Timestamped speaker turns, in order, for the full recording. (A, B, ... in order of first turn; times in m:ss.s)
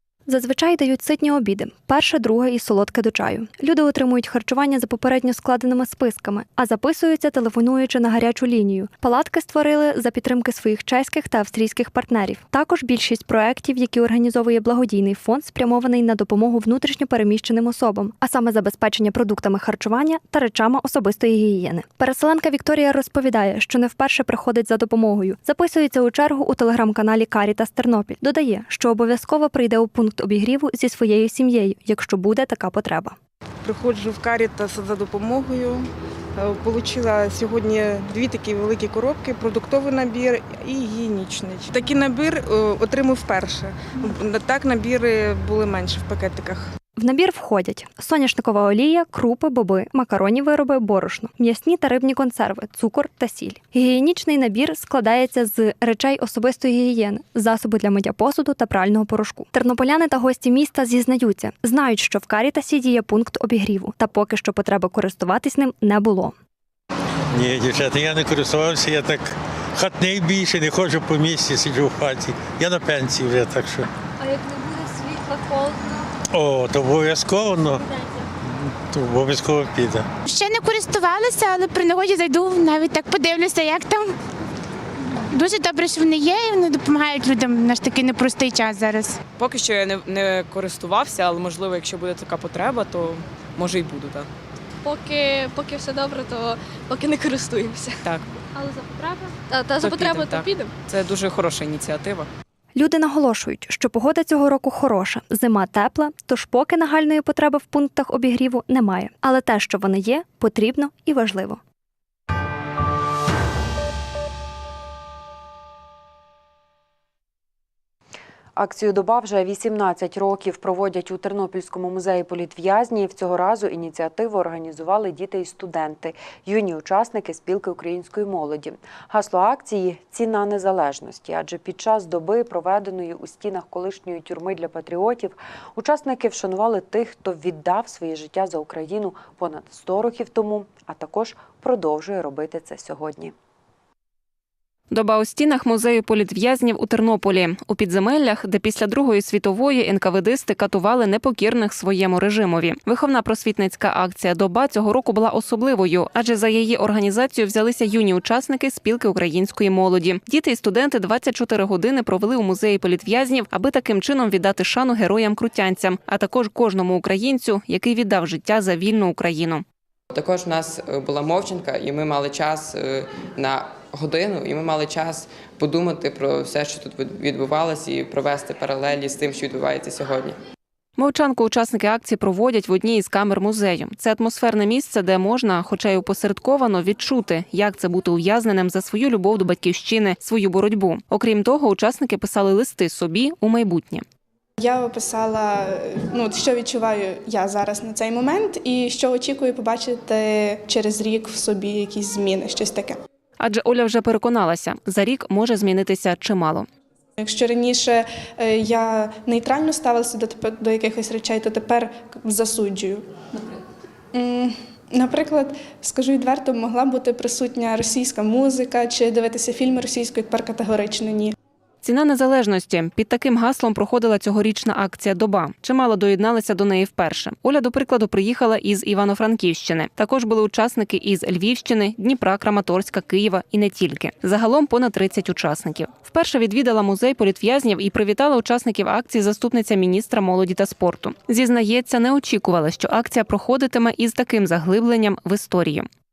0:00.3-0:33.2 A
0:33.6-0:46.7 B
0:47.0-1:06.4 A
1:07.3-1:13.9 C
1:14.2-1:16.0 D
1:16.3-1:17.8 C
1:18.6-1:20.1 C
1:20.3-1:24.1 E
1:25.3-1:29.2 E
1:29.4-1:34.3 F
1:34.8-1:38.0 D
1:38.6-1:40.8 D
1:39.8-1:42.3 F
1:42.8-1:51.6 A
1:58.6-2:23.3 G
2:24.9-2:49.6 H
2:50.1-3:00.4 I
3:01.0-3:14.0 H
3:14.6-3:23.0 J
3:23.4-3:26.7 H
3:27.2-3:33.1 J
3:34.1-3:41.3 J
3:41.8-4:05.9 H